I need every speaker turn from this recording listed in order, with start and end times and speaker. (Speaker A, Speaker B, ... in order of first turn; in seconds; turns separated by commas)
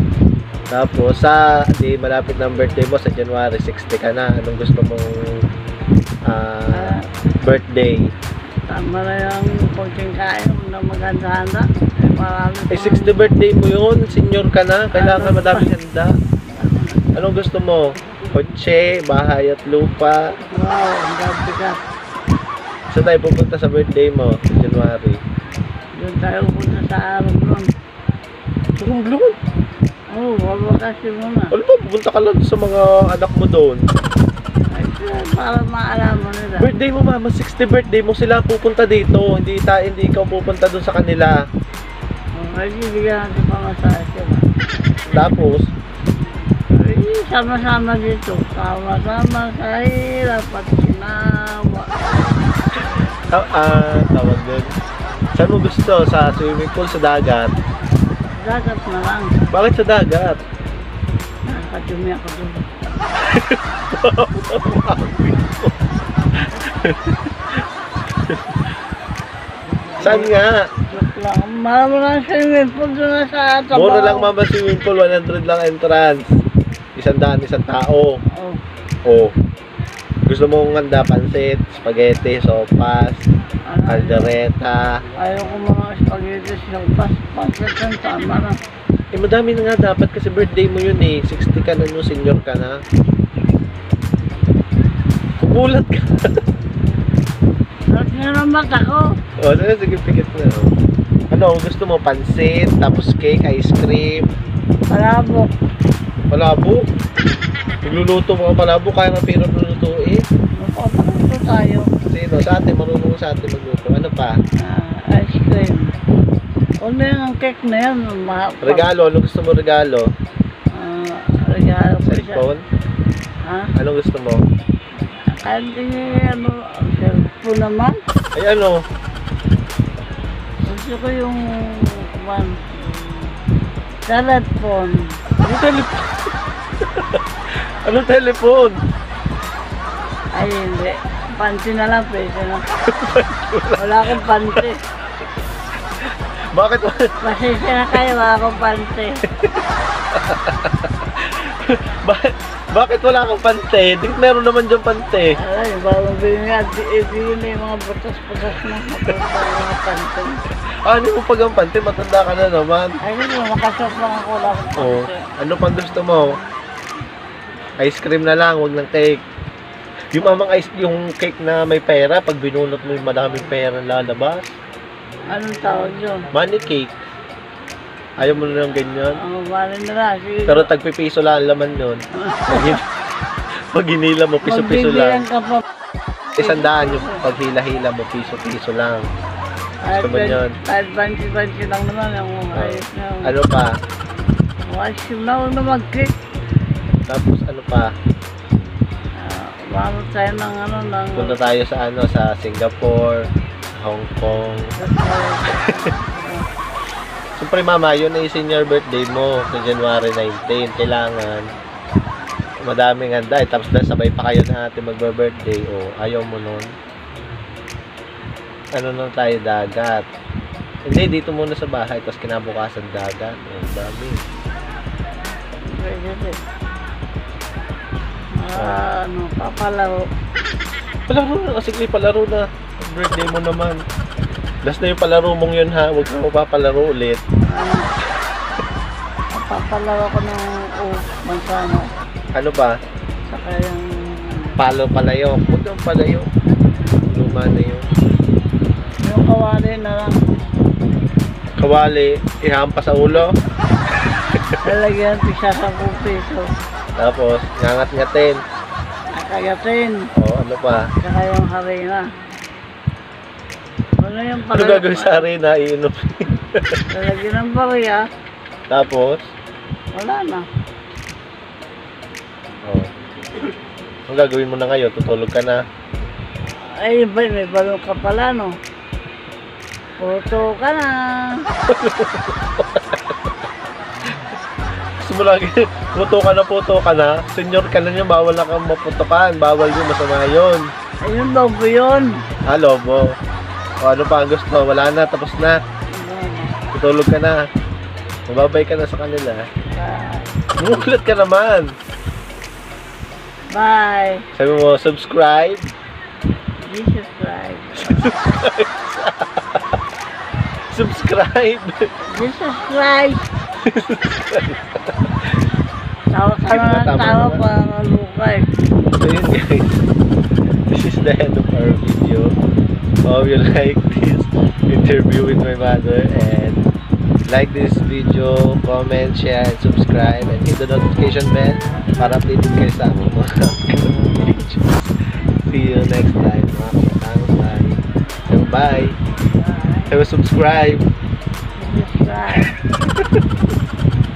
Speaker A: 0.7-5.1, Speaker A: 6.3-8.1, Speaker B: 6.7-7.0, Speaker B: 8.7-13.3, Speaker A: 12.7-16.2, Speaker B: 14.9-15.7, Speaker B: 16.5-17.0, Speaker A: 17.1-20.3, Speaker B: 20.5-21.8, Speaker A: 22.9-25.2, Speaker B: 26.0-27.7, Speaker A: 28.8-29.4, Speaker B: 30.1-31.5, Speaker A: 31.5-33.8, Speaker B: 34.7-36.7, Speaker A: 36.6-41.4, Speaker B: 42.4-44.5, Speaker A: 45.1-45.7, Speaker B: 46.7-52.1, Speaker A: 53.3-54.7, Speaker A: 55.4-57.5, Speaker B: 58.4-59.4, Speaker A: 59.5-60.4, Speaker B: 61.5-62.7, Speaker A: 63.2-65.8, Speaker A: 66.3-67.6, Speaker A: 68.2-68.7, Speaker B: 70.0-70.3, Speaker A: 70.0-70.7, Speaker B: 70.8-74.3, Speaker A: 73.7-76.3, Speaker A: 77.0-78.1, Speaker B: 78.4-78.6, Speaker A: 79.0-79.3, Speaker A: 80.3-83.2, Speaker B: 83.7-84.3, Speaker A: 83.9-85.0, Speaker B: 85.2-88.6, Speaker A: 89.1-92.8, Speaker A: 95.4-96.4, Speaker B: 97.9-99.1, Speaker A: 99.4-100.7, Speaker A: 101.3-104.2, Speaker B: 104.9-105.5, Speaker A: 106.3-106.8, Speaker A: 107.8-110.2, Speaker B: 110.6-111.9, Speaker A: 112.1-114.3, Speaker B: 114.6-115.9, Speaker B: 116.8-118.9, Speaker A: 118.6-120.1, Speaker B: 120.7-122.4, Speaker A: 122.0-122.6, Speaker B: 123.5-123.7, Speaker A: 123.8-124.4, Speaker B: 125.3-128.0, Speaker A: 128.3-128.8, Speaker B: 130.6-133.3, Speaker B: 134.1-135.2, Speaker A: 135.4-137.2, Speaker A: 137.8-138.8, Speaker B: 140.3-143.2, Speaker A: 142.9-144.7, Speaker B: 143.8-144.8, Speaker A: 146.5-147.1, Speaker B: 147.2-149.2, Speaker A: 149.3-155.3, Speaker B: 155.4-160.4, Speaker A: 160.8-163.0, Speaker B: 163.0-165.2, Speaker A: 164.8-166.3, Speaker A: 167.8-169.2, Speaker A: 170.1-174.5, Speaker B: 175.3-176.3, Speaker A: 176.3-176.9, Speaker A: 178.2-179.2, Speaker B: 179.2-180.7, Speaker A: 180.5-182.8, Speaker B: 182.2-182.8, Speaker A: 183.6-185.2, Speaker B: 184.4-185.6, Speaker A: 186.3-189.1, Speaker B: 186.4-187.2, Speaker B: 189.8-193.3, Speaker A: 189.9-190.6, Speaker A: 192.6-193.8, Speaker B: 194.7-196.2, Speaker A: 197.1-197.9, Speaker B: 199.2-201.4, Speaker A: 201.2-204.7, Speaker B: 204.8-206.4, Speaker A: 205.5-205.8, Speaker A: 207.4-211.5, Speaker A: 212.6-216.7, Speaker A: 218.8-220.1, Speaker A: 220.9-224.2, Speaker B: 225.7-226.4, Speaker B: 228.4-230.1, Speaker A: 231.1-233.8, Speaker A: 234.6-237.2, Speaker B: 237.5-237.9, Speaker B: 239.3-241.9, Speaker A: 242.3-242.8, Speaker B: 243.3-244.6, Speaker A: 244.6-246.3, Speaker A: 247.1-247.9, Speaker B: 249.0-250.2, Speaker A: 251.6-253.3, Speaker A: 254.1-254.6, Speaker B: 254.6-256.5, Speaker A: 257.0-258.4, Speaker B: 259.1-260.0, Speaker A: 260.2-260.9, Speaker B: 261.0-262.1, Speaker B: 264.0-265.2, Speaker A: 264.5-266.8, Speaker B: 266.9-268.1, Speaker A: 268.7-269.3, Speaker B: 269.9-270.5, Speaker A: 274.1-275.6, Speaker B: 276.6-278.6, Speaker B: 280.0-281.4, Speaker A: 281.7-283.3, Speaker A: 285.0-290.7, Speaker B: 291.0-292.2, Speaker A: 292.5-293.1, Speaker A: 293.8-295.6, Speaker B: 295.9-296.5, Speaker A: 296.7-297.4, Speaker A: 298.3-299.4, Speaker B: 299.7-300.3, Speaker A: 300.6-301.7, Speaker B: 303.5-304.2, Speaker A: 304.4-305.7, Speaker B: 306.6-308.1, Speaker A: 307.8-309.8, Speaker A: 310.7-311.8, Speaker B: 312.1-313.3, Speaker A: 313.6-315.3, Speaker B: 316.1-318.5, Speaker A: 316.5-317.4, Speaker A: 318.9-319.7, Speaker A: 320.7-322.4, Speaker A: 323.1-326.6, Speaker A: 327.3-338.9, Speaker B: 339.4-339.9, Speaker A: 339.9-340.8, Speaker B: 341.6-342.5, Speaker A: 342.3-343.2